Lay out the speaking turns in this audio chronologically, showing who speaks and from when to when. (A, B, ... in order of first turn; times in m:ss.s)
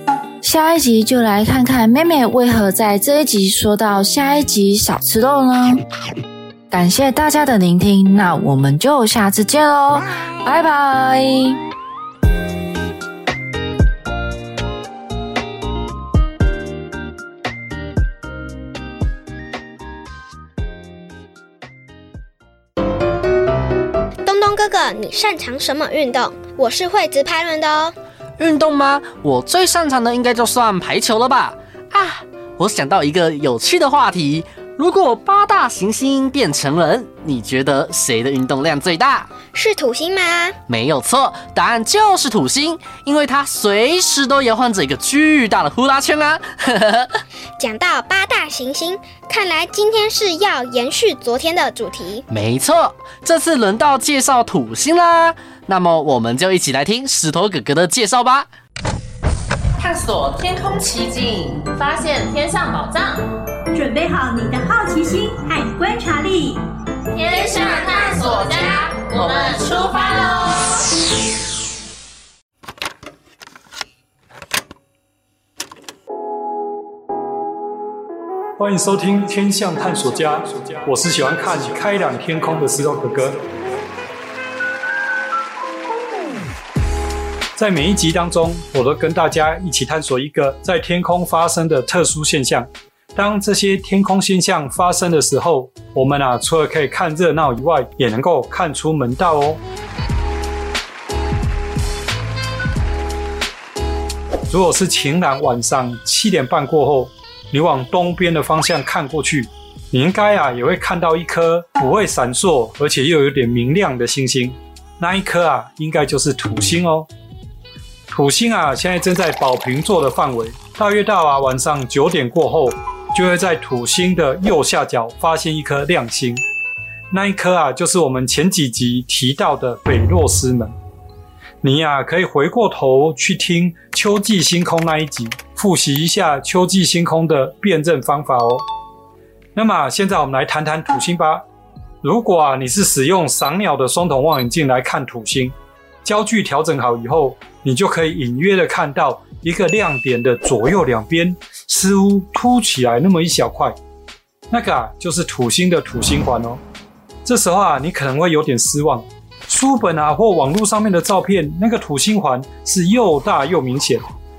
0:00.4-0:05.8 A
0:06.7-0:11.6 A
0:24.2-0:28.0 B
0:28.4-0:39.3 C
0:39.4-0:40.6 B
0:40.7-0:47.2 C
0:47.6-0:52.2 B
0:52.3-0:58.5 C
0:59.8-1:03.2 D
1:03.7-1:06.6 E
1:07.1-1:10.6 D
1:18.6-1:23.4 F
1:27.6-1:39.6 F
1:44.5-1:57.1 F
1:58.1-2:06.4 F
2:07.1-2:10.7 F
2:11.6-2:18.6 F
2:19.5-2:21.4 F
2:22.0-2:33.8 F
2:34.5-2:36.6 F
2:37.2-2:44.0 F